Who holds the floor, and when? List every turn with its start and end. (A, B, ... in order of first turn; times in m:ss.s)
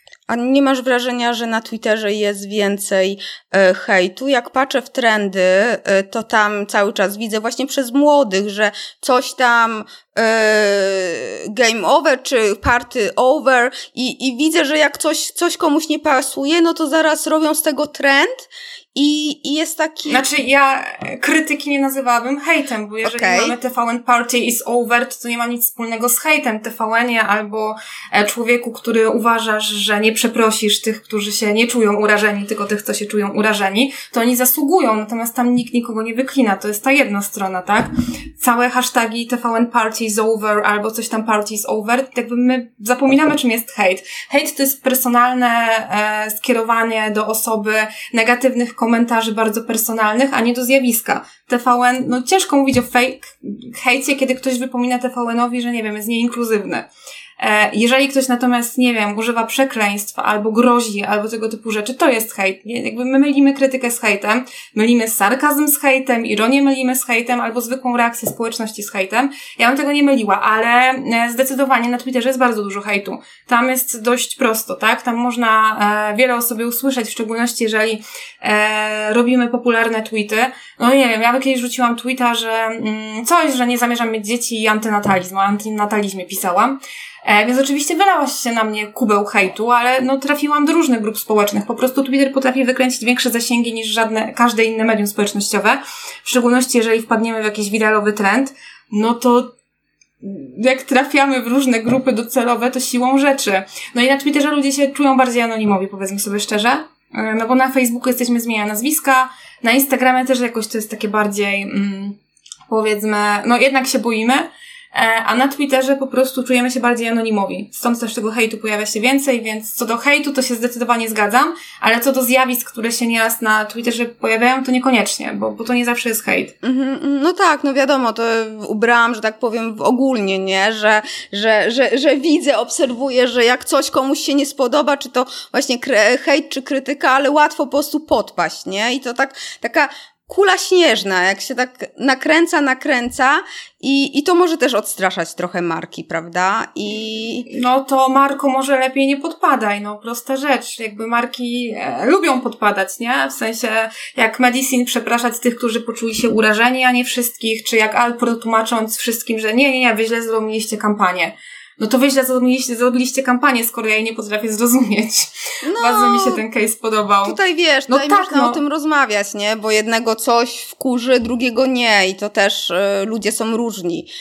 0:00.3-0:20.2 A
0:20.1-0:56.9 B
0:23.0-0:23.6 A
0:57.4-1:39.5 B
1:40.2-1:52.2 B
1:52.7-2:06.5 B
2:06.6-2:27.5 A
2:27.5-2:47.4 B
2:45.6-2:46.4 A
2:47.2-2:54.1 A
2:47.9-2:48.6 B